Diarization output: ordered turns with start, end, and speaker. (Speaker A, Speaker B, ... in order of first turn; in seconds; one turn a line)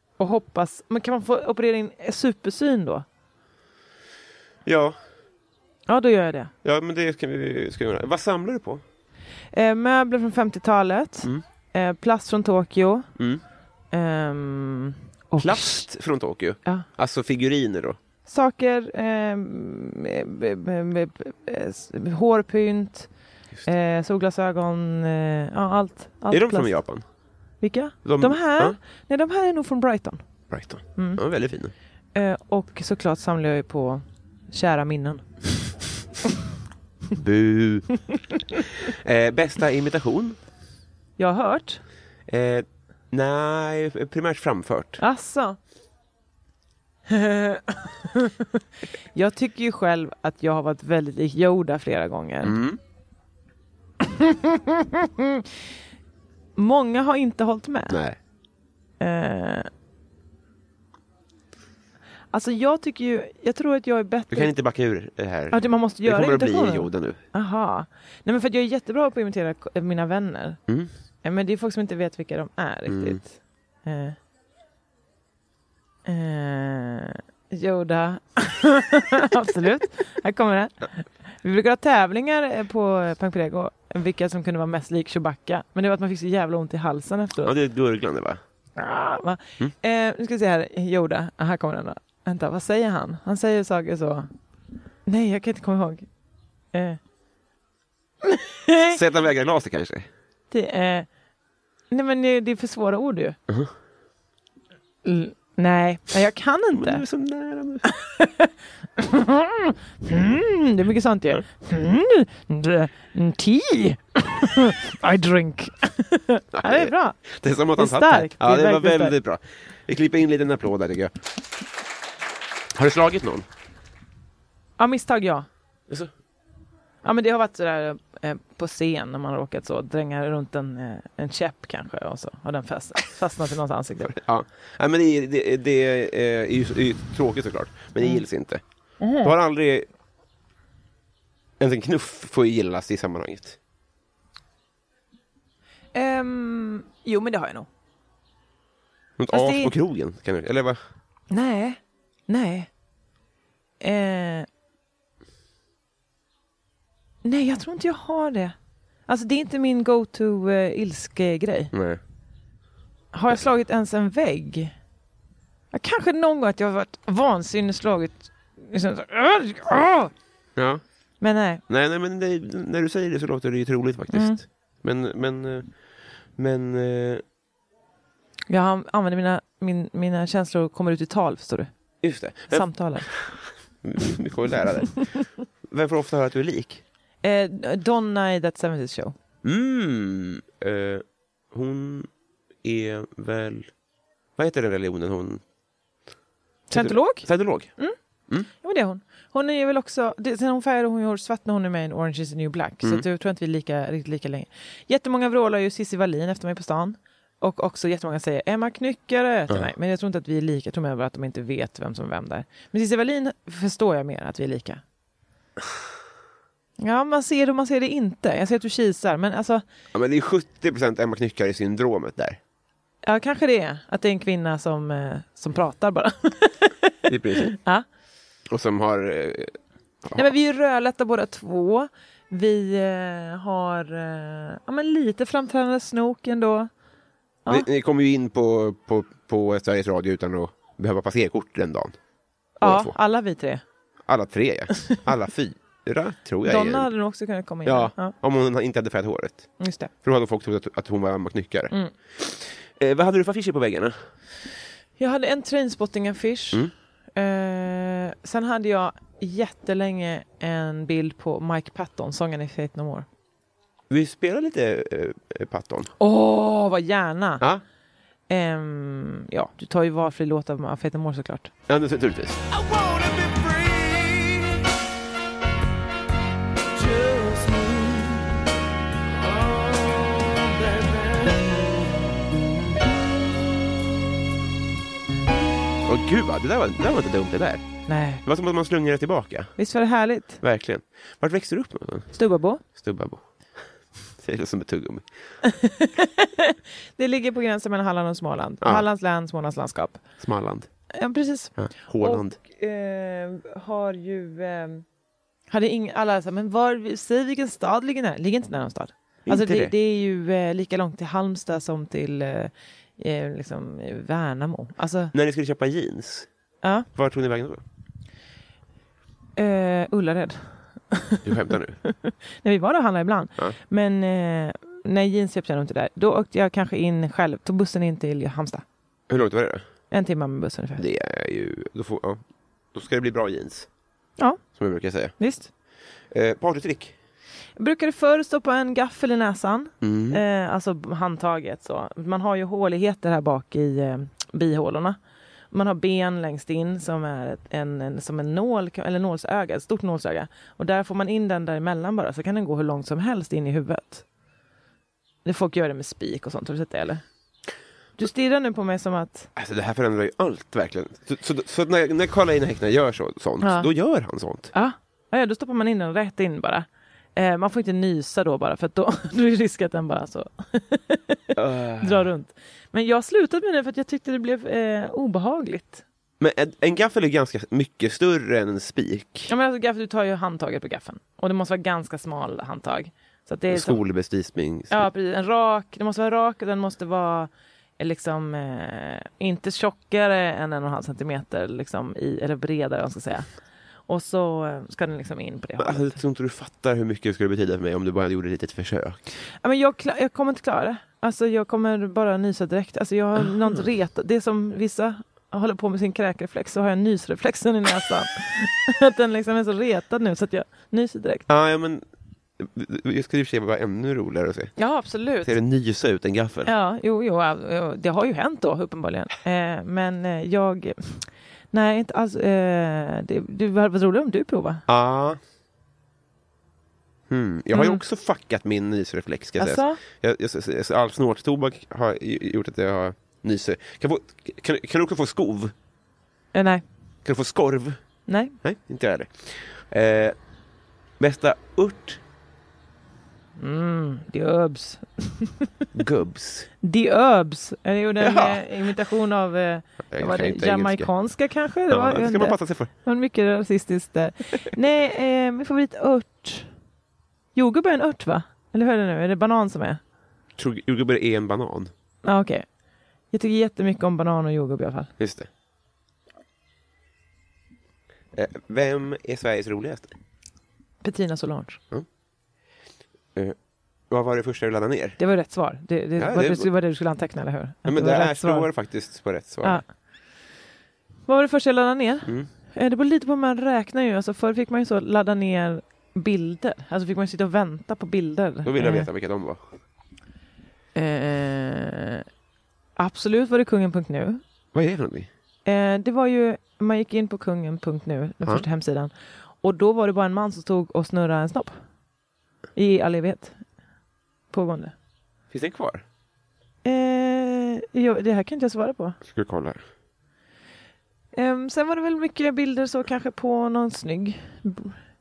Speaker A: 0.2-3.0
Speaker B: 4.7-5.0
Speaker A: 5.9-6.5
Speaker B: 6.6-8.8
Speaker A: 9.5-13.1
Speaker A: 13.9-15.8
Speaker B: 15.4-18.0
Speaker A: 18.2-23.1
Speaker A: 23.6-26.7
Speaker B: 26.3-27.0
Speaker A: 27.6-30.2
Speaker B: 28.0-28.8
Speaker B: 30.5-31.7
Speaker A: 30.9-31.2
Speaker A: 32.1-35.2
Speaker B: 37.1-37.9
Speaker B: 38.8-40.4
Speaker A: 41.2-41.8
Speaker B: 42.3-45.0
Speaker A: 45.0-45.6
Speaker A: 47.1-48.6
Speaker A: 49.1-52.5
Speaker B: 52.4-52.8
Speaker A: 54.0-55.5
Speaker A: 56.6-58.0
Speaker B: 57.9-58.2
Speaker A: 59.0-59.7
Speaker A: 62.3-64.5
Speaker B: 64.3-67.2
Speaker A: 65.5-70.6
Speaker A: 71.2-74.2
Speaker B: 72.9-73.2
Speaker A: 76.0-87.5
Speaker B: 87.4-88.4
Speaker A: 88.8-94.3
Speaker A: 95.0-96.1
Speaker A: 96.7-97.0
Speaker A: 98.2-99.0
Speaker B: 98.9-100.1
Speaker A: 100.5-101.1
Speaker A: 101.9-103.4
Speaker A: 105.0-107.0
Speaker B: 106.7-107.9
Speaker A: 107.8-119.1
Speaker B: 116.5-121.2
Speaker B: 122.7-123.5
Speaker A: 124.8-125.5
Speaker A: 127.0-134.2
Speaker B: 134.0-138.6
Speaker A: 139.0-139.3
Speaker B: 139.2-139.9
Speaker B: 141.6-143.6
Speaker A: 145.9-147.7
Speaker B: 149.2-150.8
Speaker A: 149.3-149.7
Speaker A: 151.3-152.7
Speaker A: 153.8-154.5
Speaker A: 157.2-158.5
Speaker A: 159.1-161.7
Speaker B: 161.7-162.0
Speaker A: 163.1-164.7
Speaker A: 165.7-170.1
Speaker B: 170.6-170.8
Speaker A: 171.2-171.6
Speaker B: 171.7-175.7
Speaker A: 174.1-174.4
Speaker B: 176.3-177.2
Speaker A: 178.5-181.7
Speaker B: 182.0-185.1
Speaker A: 182.5-183.1
Speaker B: 185.7-186.8
Speaker A: 187.2-189.1
Speaker B: 189.4-192.1
Speaker B: 192.6-193.7
Speaker B: 194.4-195.4
Speaker A: 196.7-197.9
Speaker B: 196.7-197.7
Speaker A: 198.6-214.8
Speaker A: 216.8-219.6
Speaker B: 219.9-222.4
Speaker A: 223.0-227.8
Speaker B: 227.1-227.5
Speaker B: 228.5-230.2
Speaker A: 230.1-236.7
Speaker B: 237.5-241.9
Speaker A: 242.6-243.6
Speaker B: 242.6-242.9
Speaker B: 244.1-246.9
Speaker A: 246.4-248.1
Speaker B: 247.6-249.5
Speaker A: 249.6-249.9
Speaker B: 250.0-254.0
Speaker A: 255.0-263.1
Speaker B: 263.9-265.9
Speaker A: 266.0-267.4
Speaker A: 268.3-271.5
Speaker B: 271.7-274.6
Speaker B: 276.7-278.3
Speaker B: 279.1-281.9
Speaker B: 285.8-287.7
Speaker A: 287.9-288.2
Speaker B: 288.2-289.5
Speaker A: 289.6-290.4
Speaker B: 290.4-292.1
Speaker A: 292.1-292.6
Speaker B: 292.7-293.2
Speaker B: 294.1-295.1
Speaker A: 295.4-300.0
Speaker B: 300.2-300.7
Speaker A: 300.9-304.8
Speaker B: 301.6-302.4
Speaker A: 305.5-315.1
Speaker B: 309.2-309.7
Speaker B: 315.1-316.3
Speaker B: 316.9-317.6
Speaker A: 319.4-328.6
Speaker B: 321.2-321.8
Speaker B: 329.1-329.6
Speaker A: 329.9-330.8
Speaker B: 330.8-332.2
Speaker B: 332.7-333.7
Speaker B: 334.6-335.1
Speaker A: 335.2-335.5
Speaker B: 336.1-336.9
Speaker A: 337.6-345.0
Speaker B: 339.8-340.2
Speaker A: 345.5-354.0
Speaker A: 355.2-357.0
Speaker A: 358.0-359.3
Speaker B: 359.4-364.5
Speaker A: 363.4-363.7
Speaker A: 364.5-375.8
Speaker B: 371.4-372.1
Speaker B: 376.2-379.3
Speaker A: 379.3-383.8
Speaker B: 383.5-384.8
Speaker A: 384.7-393.3
Speaker A: 393.9-395.9
Speaker B: 395.6-399.0
Speaker A: 399.4-411.2
Speaker B: 403.2-403.6
Speaker B: 411.3-411.8
Speaker B: 412.4-414.5
Speaker A: 414.6-415.3
Speaker B: 415.2-416.5
Speaker A: 416.4-424.6
Speaker B: 424.7-425.2
Speaker B: 427.1-435.5
Speaker A: 427.5-427.8
Speaker A: 429.4-429.8
Speaker A: 436.3-436.6
Speaker B: 437.0-437.8
Speaker A: 438.1-438.4
Speaker B: 438.4-440.1
Speaker B: 441.0-442.0
Speaker A: 443.4-445.5
Speaker B: 445.7-446.5
Speaker A: 446.6-456.5
Speaker B: 448.0-448.4
Speaker B: 449.9-450.9
Speaker B: 451.7-452.7
Speaker A: 457.3-459.8
Speaker B: 460.4-461.7
Speaker A: 462.0-462.4
Speaker A: 463.1-464.9
Speaker B: 465.0-465.3
Speaker B: 468.1-469.9
Speaker A: 470.8-471.6
Speaker B: 473.9-475.0
Speaker A: 475.0-478.5
Speaker B: 476.0-476.5
Speaker B: 477.6-479.6
Speaker A: 481.1-488.9
Speaker B: 488.4-489.4
Speaker A: 490.8-492.0
Speaker A: 492.8-494.2
Speaker B: 494.5-495.1
Speaker A: 495.4-501.5
Speaker A: 502.6-503.4
Speaker A: 504.3-504.7
Speaker B: 505.3-505.8
Speaker A: 506.6-509.0
Speaker B: 509.1-509.6
Speaker A: 511.1-514.8